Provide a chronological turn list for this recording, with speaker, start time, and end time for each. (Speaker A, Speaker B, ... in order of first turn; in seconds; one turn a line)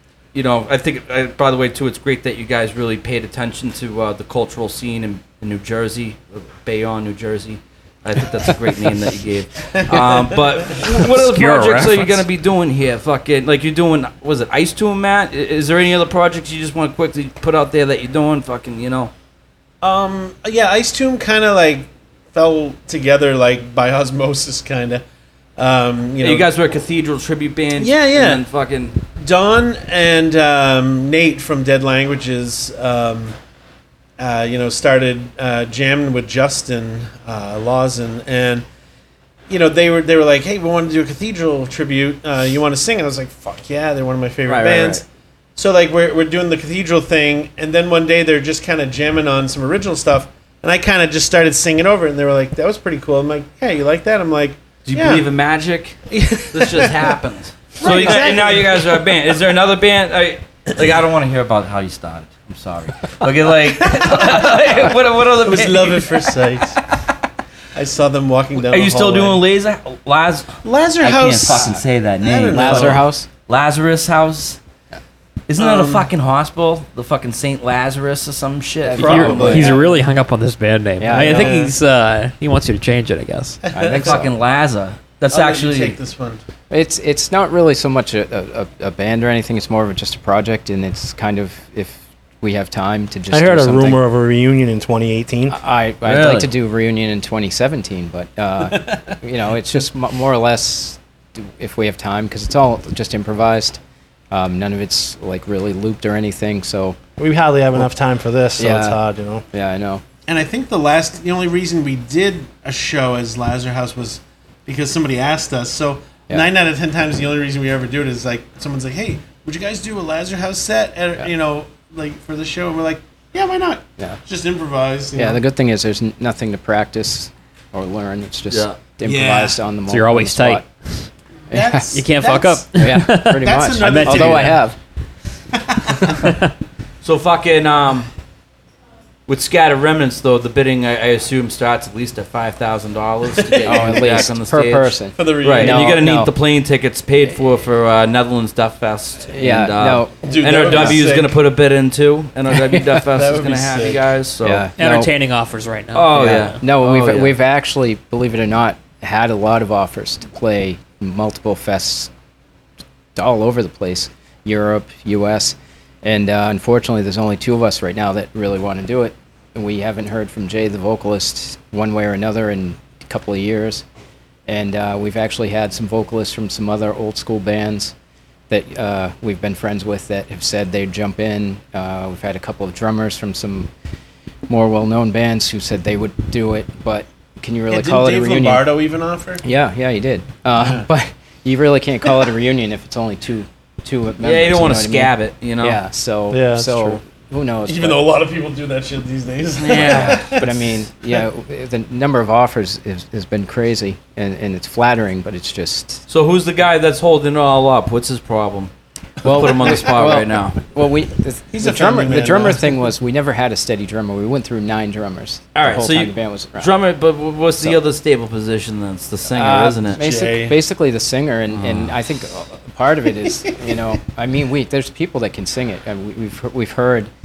Speaker A: 0.3-19.1
Speaker B: 9.8-10.2
Speaker C: 11.0-12.2
Speaker B: 19.8-25.0
Speaker B: 25.6-26.5
Speaker A: 26.2-28.9
Speaker B: 27.8-28.4
Speaker B: 29.1-33.3
Speaker B: 34.2-38.6
Speaker B: 39.5-45.0
Speaker A: 44.5-45.0
Speaker B: 45.5-55.2
Speaker A: 54.8-66.1
Speaker B: 56.1-57.1
Speaker B: 57.8-59.2
Speaker B: 63.9-64.6
Speaker B: 65.4-66.8
Speaker B: 67.7-69.4
Speaker A: 68.6-74.6
Speaker B: 70.6-73.0
Speaker D: 72.5-73.3
Speaker A: 75.5-79.7
Speaker B: 75.6-76.1
Speaker D: 78.8-79.8
Speaker B: 78.9-79.9
Speaker C: 79.1-83.6
Speaker D: 81.0-81.7
Speaker B: 81.1-81.7
Speaker B: 83.6-84.2
Speaker D: 83.7-84.3
Speaker A: 83.9-86.0
Speaker B: 85.3-86.4
Speaker D: 86.7-94.0
Speaker E: 93.3-95.6
Speaker D: 95.5-103.8
Speaker A: 96.0-96.5
Speaker D: 104.3-107.0
Speaker E: 107.2-109.4
Speaker D: 108.6-109.0
Speaker D: 109.5-110.0
Speaker B: 110.3-125.4
Speaker D: 125.2-130.6
Speaker A: 128.5-128.8
Speaker B: 129.0-129.6
Speaker C: 129.9-131.1
Speaker B: 131.5-134.6
Speaker D: 131.5-132.0
Speaker C: 131.9-134.6
Speaker D: 132.7-134.8
Speaker B: 135.5-136.0
Speaker C: 136.1-136.5
Speaker A: 137.0-138.1
Speaker A: 139.3-154.7
Speaker B: 143.3-144.0
Speaker D: 143.6-146.3
Speaker B: 145.1-146.0
Speaker D: 149.3-151.1
Speaker B: 150.2-151.4
Speaker D: 152.5-152.9
Speaker B: 153.1-154.0
Speaker D: 154.4-155.1
Speaker C: 154.8-156.5
Speaker A: 155.9-157.3
Speaker D: 156.1-162.1
Speaker D: 163.1-173.8
Speaker D: 174.5-177.9
Speaker D: 178.5-183.7
Speaker D: 184.5-188.7
Speaker B: 187.7-189.4
Speaker D: 189.4-198.0
Speaker B: 190.6-190.8
Speaker A: 194.2-195.8
Speaker E: 196.3-197.0
Speaker B: 197.6-200.6
Speaker A: 199.6-200.3
Speaker D: 199.8-206.1
Speaker A: 206.1-208.7
Speaker A: 209.2-210.6
Speaker D: 209.2-216.8
Speaker B: 211.5-212.7
Speaker A: 215.5-220.0
Speaker D: 219.3-227.1
Speaker B: 220.0-220.6